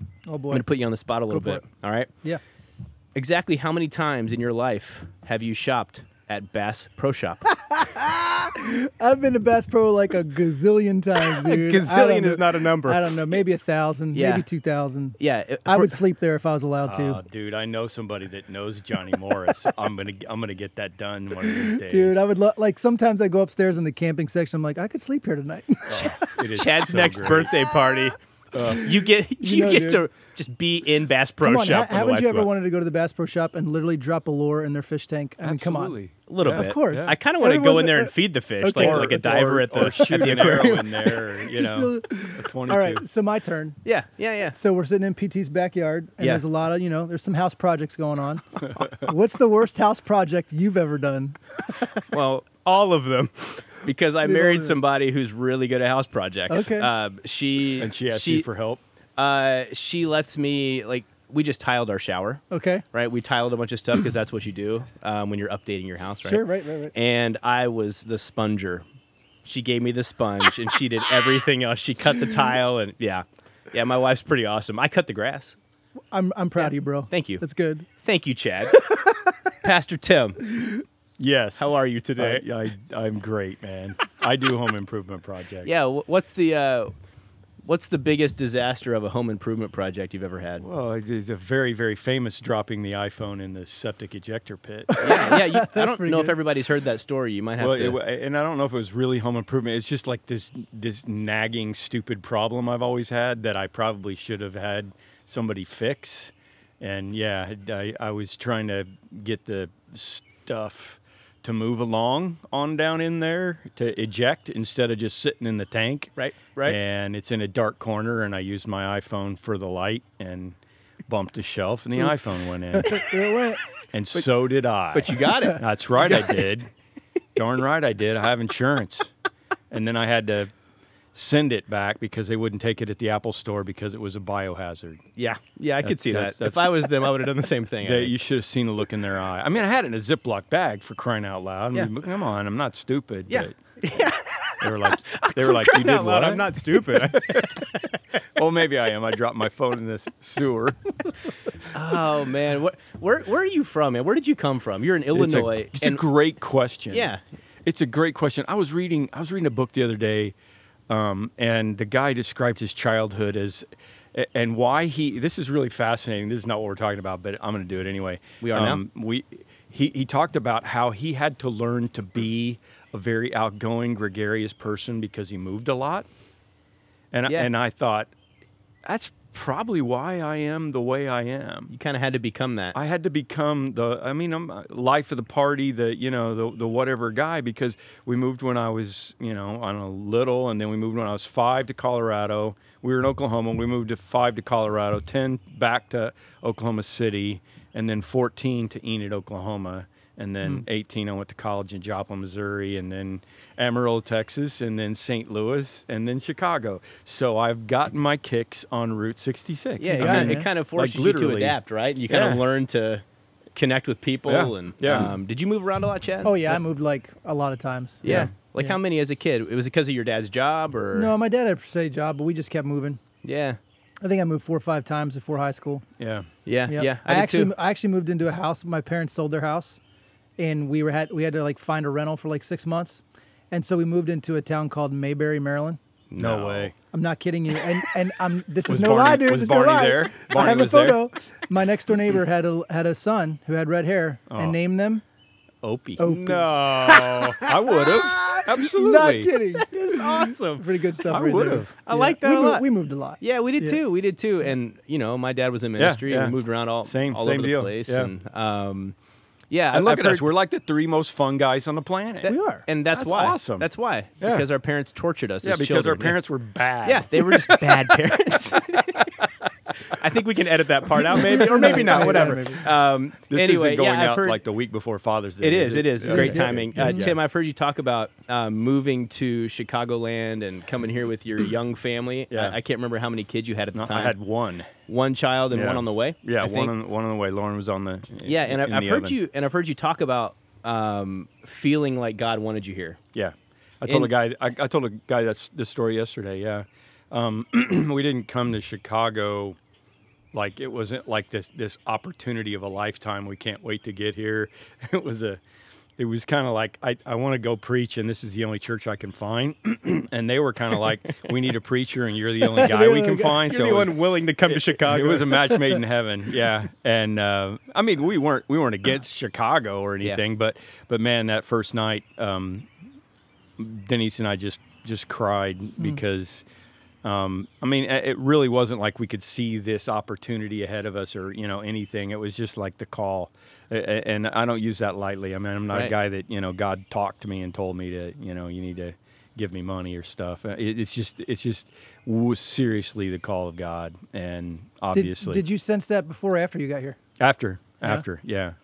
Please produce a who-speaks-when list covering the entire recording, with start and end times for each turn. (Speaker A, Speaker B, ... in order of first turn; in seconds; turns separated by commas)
Speaker A: 0.3-0.7, Speaker B: 0.5-2.1, Speaker A: 1.3-1.6, Speaker B: 3.1-7.5, Speaker A: 7.5-17.2, Speaker B: 11.2-13.3, Speaker B: 14.1-14.4, Speaker B: 15.2-16.0, Speaker C: 16.9-22.2, Speaker A: 21.4-26.4, Speaker C: 25.9-27.5, Speaker B: 26.2-32.5, Speaker A: 27.4-28.9, Speaker C: 28.5-28.8, Speaker A: 29.4-30.1, Speaker A: 31.4-39.5, Speaker C: 35.4-37.2, Speaker B: 36.3-41.2, Speaker C: 38.8-43.0, Speaker A: 41.5-43.8, Speaker B: 43.8-44.6, Speaker A: 44.5-52.0, Speaker B: 51.9-58.5, Speaker A: 54.2-54.8, Speaker A: 56.5-56.9, Speaker C: 57.8-58.8, Speaker B: 59.2-68.8, Speaker A: 62.5-62.8, Speaker A: 66.2-66.9, Speaker B: 69.4-75.6, Speaker A: 76.1-77.9, Speaker B: 76.6-77.4, Speaker B: 78.0-79.0, Speaker B: 79.6-80.6, Speaker C: 81.2-85.7, Speaker B: 81.6-82.4, Speaker B: 85.7-86.9, Speaker B: 87.6-90.7, Speaker C: 90.6-95.0, Speaker A: 94.9-96.4, Speaker B: 95.0-98.0, Speaker C: 97.6-116.1, Speaker B: 116.2-116.8, Speaker C: 116.7-120.6, Speaker C: 121.1-123.1, Speaker A: 122.0-123.6, Speaker C: 123.9-126.7, Speaker B: 124.9-126.4, Speaker C: 127.3-129.1, Speaker C: 129.7-130.5, Speaker C: 131.1-135.0, Speaker B: 135.2-138.1, Speaker C: 135.8-137.1, Speaker C: 137.8-143.6, Speaker B: 143.3-148.0, Speaker C: 144.6-147.7, Speaker C: 148.2-151.3, Speaker B: 151.7-156.0, Speaker C: 155.1-157.1, Speaker B: 156.9-157.2, Speaker C: 157.7-160.3, Speaker C: 160.9-176.1, Speaker B: 168.4-168.8, Speaker C: 177.1-178.1, Speaker C: 178.8-181.7, Speaker B: 181.7-182.8, Speaker C: 182.7-211.6, Speaker B: 209.8-213.0, Speaker A: 209.8-210.5, Speaker C: 212.1-212.4, Speaker B: 213.6-216.4, Speaker C: 214.3-215.1, Speaker A: 216.2-218.8, Speaker B: 218.0-221.1, Speaker C: 218.1-218.3, Speaker A: 220.9-223.0, Speaker B: 223.2-223.6, Speaker A: 224.0-225.8, Speaker C: 226.0-226.3, Speaker B: 226.4-227.5, Speaker A: 226.7-229.8, Speaker A: 230.4-235.8, Speaker B: 236.1-236.7, Speaker C: 236.2-236.7, Speaker A: 236.9-245.0, Speaker C: 238.7-241.0, Speaker C: 244.3-244.6, Speaker B: 245.6-247.4, Speaker A: 246.0-253.8, Speaker C: 247.3-249.4, Speaker B: 249.7-250.7, Speaker C: 251.1-251.7, Speaker B: 251.9-252.6, Speaker B: 253.2-258.9, Speaker C: 255.8-258.1, Speaker B: 259.5-260.2, Speaker C: 259.7-262.3, Speaker B: 262.2-266.1, Speaker A: 262.2-262.6, Speaker C: 262.9-263.6, Speaker C: 264.2-264.4, Speaker C: 265.4-270.0, Speaker B: 266.9-269.1, Speaker B: 269.9-274.4, Speaker C: 271.1-272.3, Speaker A: 271.3-272.7, Speaker C: 273.3-277.2, Speaker B: 275.4-284.1, Speaker A: 276.1-277.1, Speaker C: 282.3-282.6, Speaker C: 283.7-284.7, Speaker B: 284.9-286.7, Speaker C: 285.5-289.1, Speaker B: 288.2-293.0, Speaker C: 293.1-299.6, Speaker C: 300.3-305.4, Speaker C: 306.0-322.7, Speaker B: 312.6-315.7, Speaker C: 323.6-326.4, Speaker C: 327.0-345.4, Speaker A: 344.9-347.0, Speaker C: 347.2-348.6